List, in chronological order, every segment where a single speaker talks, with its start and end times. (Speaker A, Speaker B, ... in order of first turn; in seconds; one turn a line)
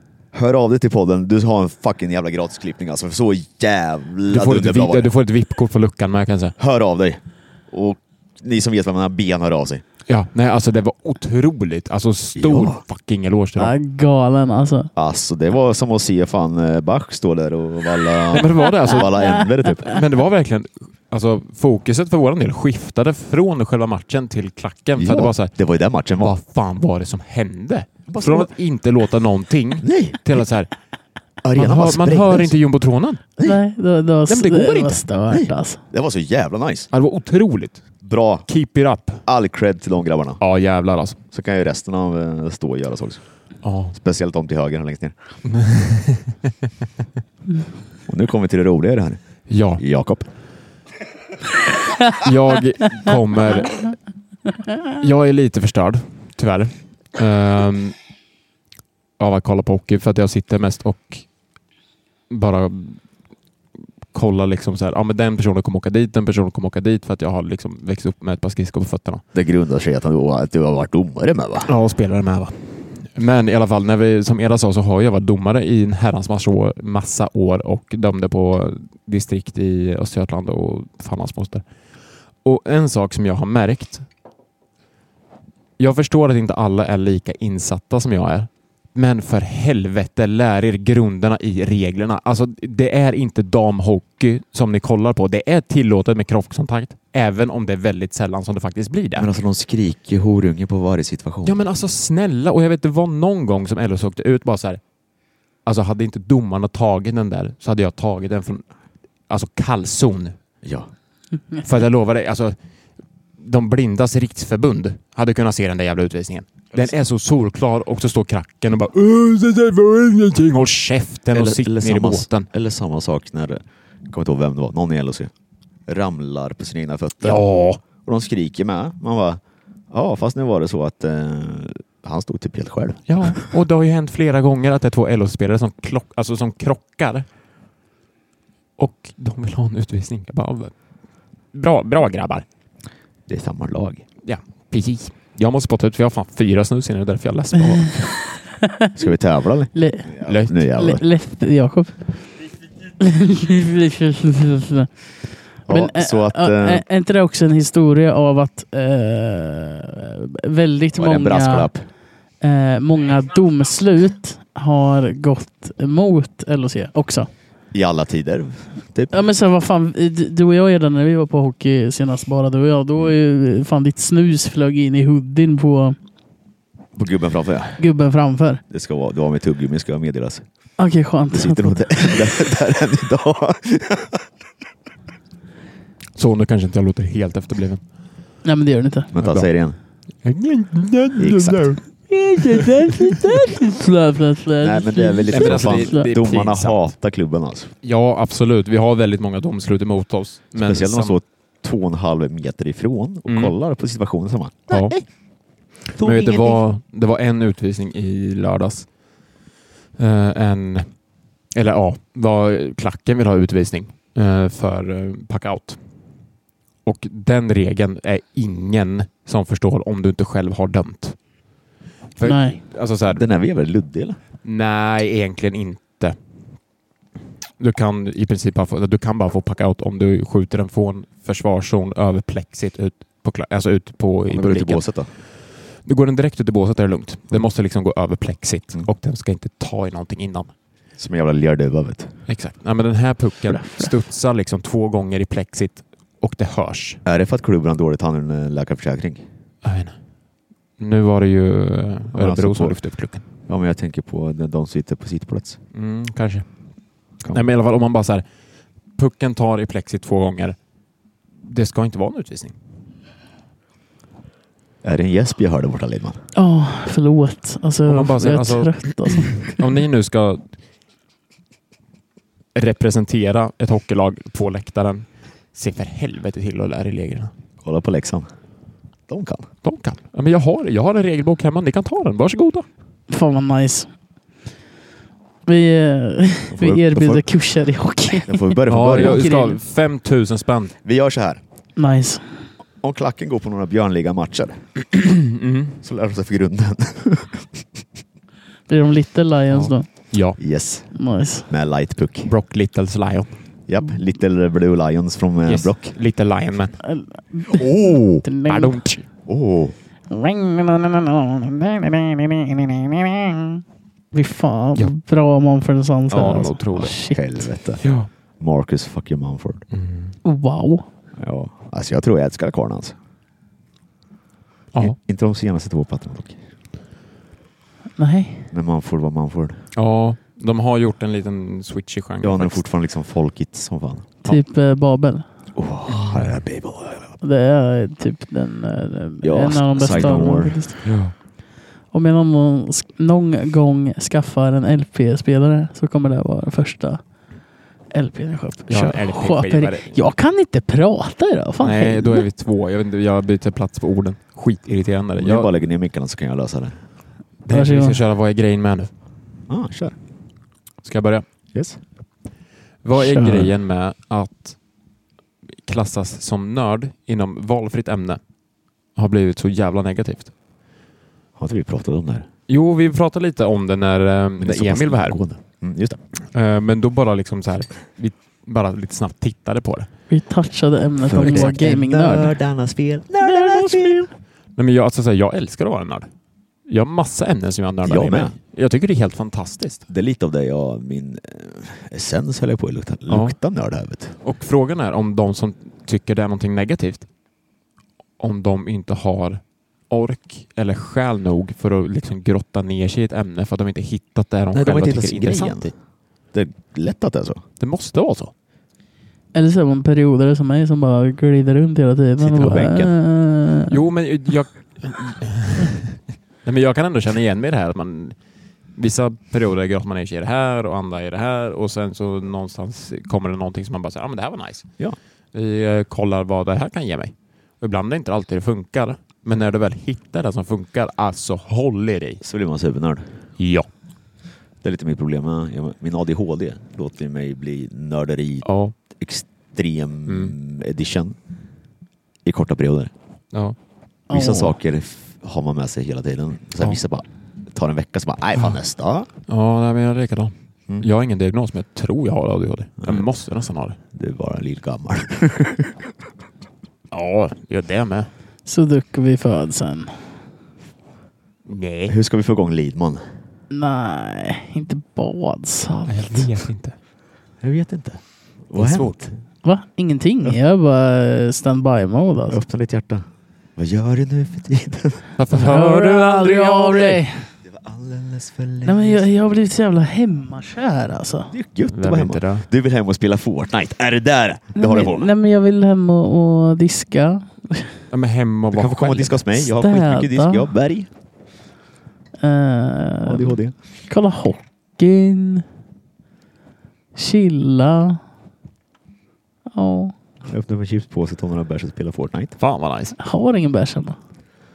Speaker A: 0.3-5.1
Speaker B: 4.3-6.5
Speaker A: 6.6-9.8
Speaker B: 10.1-13.7
Speaker A: 12.4-12.8
Speaker C: 13.6-14.9
Speaker A: 14.9-19.9
Speaker B: 18.3-19.1
Speaker C: 18.4-19.9
Speaker B: 19.8-25.5
Speaker A: 25.0-26.4
Speaker B: 26.2-30.7
Speaker A: 28.1-28.5
Speaker A: 29.8-30.2
Speaker A: 31.4-32.5
Speaker B: 31.5-33.2
Speaker C: 33.4-35.8
Speaker B: 34.3-35.0
Speaker A: 35.3-36.9
Speaker B: 36.9-37.8
Speaker A: 38.0-38.5
Speaker B: 38.5-39.2
Speaker A: 39.2-40.4
Speaker B: 40.4-41.2
Speaker A: 41.3-43.2
Speaker B: 43.6-43.9
Speaker A: 43.9-45.1
Speaker B: 45.4-46.4
Speaker A: 48.1-49.2
Speaker B: 49.5-49.8
Speaker A: 49.8-50.3
Speaker B: 52.1-53.9
Speaker B: 54.9-57.9
Speaker B: 59.2-61.2
Speaker B: 62.3-63.0
Speaker B: 64.1-69.2
Speaker A: 69.3-71.7
Speaker B: 71.7-81.6
Speaker B: 82.4-84.0
Speaker B: 85.8-99.3
Speaker A: 99.2-101.6
Speaker B: 101.4-104.8
Speaker B: 105.6-108.6
Speaker B: 109.3-110.3
Speaker A: 110.6-110.9
Speaker B: 111.6-112.5
Speaker B: 113.4-122.5
Speaker A: 121.3-125.3
Speaker A: 125.9-127.4
Speaker B: 127.2-127.8
Speaker A: 128.0-133.5
Speaker B: 133.1-137.2
Speaker B: 138.8-140.7
Speaker B: 141.5-142.4
Speaker A: 143.3-144.0
Speaker B: 144.2-148.1
Speaker C: 147.7-148.9
Speaker A: 148.9-151.0
Speaker C: 149.7-150.1
Speaker B: 150.2-150.6
Speaker C: 150.7-152.1
Speaker C: 153.0-154.9
Speaker C: 155.7-161.7
Speaker A: 155.7-156.8
Speaker A: 161.0-161.8
Speaker C: 162.4-167.3
Speaker A: 167.7-169.2
Speaker C: 169.1-176.0
Speaker A: 176.9-177.8
Speaker C: 177.8-178.6
Speaker A: 178.7-180.4
Speaker C: 180.8-182.3
Speaker A: 181.3-184.2
Speaker B: 186.2-187.8
Speaker C: 188.4-189.1
Speaker A: 189.1-189.8
Speaker B: 189.2-189.5
Speaker B: 190.2-191.8
Speaker A: 191.2-191.8
Speaker C: 192.1-196.1
Speaker A: 194.6-197.7
Speaker B: 195.3-196.8
Speaker B: 197.8-201.2
Speaker A: 200.6-205.0
Speaker B: 203.3-203.5
Speaker B: 204.7-205.0
Speaker A: 205.9-206.6
Speaker B: 206.0-208.9
Speaker B: 210.0-210.9
Speaker B: 211.5-215.8
Speaker B: 216.8-221.2
Speaker B: 222.2-223.2
Speaker C: 222.2-222.6
Speaker A: 223.1-224.2
Speaker B: 224.4-226.2
Speaker B: 227.6-234.8
Speaker A: 234.3-235.1
Speaker B: 235.8-240.5
Speaker A: 241.0-242.1
Speaker B: 242.3-247.0
Speaker C: 243.5-243.9
Speaker A: 247.0-249.2
Speaker B: 249.6-249.9
Speaker B: 250.8-253.2
Speaker A: 252.1-252.8
Speaker A: 253.5-255.6
Speaker B: 255.7-256.4
Speaker B: 257.3-258.2
Speaker B: 258.9-260.6
Speaker B: 261.4-262.5
Speaker A: 264.8-266.2
Speaker C: 266.3-269.5
Speaker B: 267.9-270.4
Speaker B: 272.5-277.3
Speaker A: 277.6-278.3
Speaker A: 279.1-279.5
Speaker B: 279.6-282.6
Speaker C: 283.1-283.9
Speaker C: 285.4-289.6
Speaker A: 286.5-287.3
Speaker A: 288.2-289.3
Speaker B: 288.7-290.7
Speaker A: 290.8-291.4
Speaker C: 291.8-292.4
Speaker A: 292.8-294.6
Speaker B: 294.9-295.8
Speaker A: 295.8-297.6
Speaker C: 298.7-299.9
Speaker B: 299.5-300.4
Speaker A: 300.4-300.9
Speaker C: 300.9-301.5
Speaker A: 301.5-302.3
Speaker B: 302.2-303.3
Speaker A: 303.7-305.9
Speaker B: 305.5-306.8
Speaker C: 306.8-307.7
Speaker A: 307.5-308.2
Speaker C: 308.2-308.8
Speaker B: 308.4-309.0
Speaker A: 309.3-309.7
Speaker C: 310.1-313.6
Speaker C: 314.1-317.4
Speaker B: 316.1-316.9
Speaker A: 316.9-317.8
Speaker B: 317.8-318.1
Speaker A: 318.4-319.6
Speaker B: 319.7-320.1
Speaker C: 320.2-320.9
Speaker A: 321.2-322.9
Speaker A: 324.8-326.4
Speaker C: 328.0-328.5
Speaker A: 328.5-329.6
Speaker B: 329.8-332.6
Speaker A: 332.2-334.1
Speaker C: 334.2-335.2
Speaker A: 335.6-337.1
Speaker B: 335.9-336.4
Speaker C: 337.2-340.8
Speaker A: 339.2-340.6
Speaker B: 340.8-341.1
Speaker C: 341.9-347.0
Speaker C: 347.9-352.3
Speaker B: 348.7-350.1
Speaker B: 351.6-355.5
Speaker A: 355.2-356.8
Speaker B: 357.4-358.9
Speaker C: 357.5-358.0
Speaker A: 359.5-359.9
Speaker B: 360.8-361.2
Speaker B: 362.8-364.6
Speaker C: 362.9-363.5
Speaker B: 365.6-368.2
Speaker B: 368.9-370.3
Speaker A: 371.4-372.3
Speaker B: 372.5-375.2
Speaker A: 374.4-376.0
Speaker B: 376.3-379.9
Speaker C: 380.1-382.4
Speaker A: 381.0-384.0
Speaker B: 381.2-381.5
Speaker C: 383.2-384.1
Speaker B: 384.6-386.1
Speaker B: 386.7-389.8
Speaker A: 387.8-388.3
Speaker A: 389.9-394.1
Speaker B: 393.1-393.4
Speaker B: 394.2-397.1
Speaker B: 398.2-405.7
Speaker A: 404.5-405.7
Speaker A: 406.3-407.4
Speaker B: 407.6-408.3
Speaker C: 409.3-413.7
Speaker A: 412.2-412.9
Speaker B: 413.7-418.2
Speaker B: 418.7-424.7
Speaker B: 425.3-432.2
Speaker A: 432.2-433.1
Speaker B: 433.4-433.7
Speaker A: 434.6-441.1
Speaker B: 438.4-438.7
Speaker B: 440.1-440.3
Speaker A: 442.2-442.9
Speaker C: 444.1-444.6
Speaker A: 444.1-449.1
Speaker B: 449.3-453.8
Speaker A: 452.8-453.1
Speaker A: 453.9-455.9
Speaker B: 456.9-458.1
Speaker C: 458.4-459.9
Speaker B: 461.4-461.9
Speaker A: 461.9-463.0
Speaker C: 463.5-466.3
Speaker B: 465.9-466.7
Speaker A: 467.4-469.0
Speaker B: 468.6-469.1
Speaker C: 469.4-472.4
Speaker A: 472.3-473.0
Speaker A: 473.6-475.1
Speaker B: 475.2-477.0
Speaker C: 475.3-477.3
Speaker A: 477.4-479.1
Speaker C: 478.6-481.3
Speaker A: 481.3-485.1
Speaker B: 481.7-482.4
Speaker C: 484.6-487.7
Speaker B: 487.9-489.2
Speaker A: 488.5-490.9
Speaker C: 489.4-490.5
Speaker C: 492.2-493.4
Speaker A: 493.0-493.5
Speaker C: 493.9-495.4
Speaker C: 496.9-498.0
Speaker C: 499.5-499.9
Speaker A: 500.2-502.4
Speaker B: 502.4-502.9
Speaker C: 503.0-504.0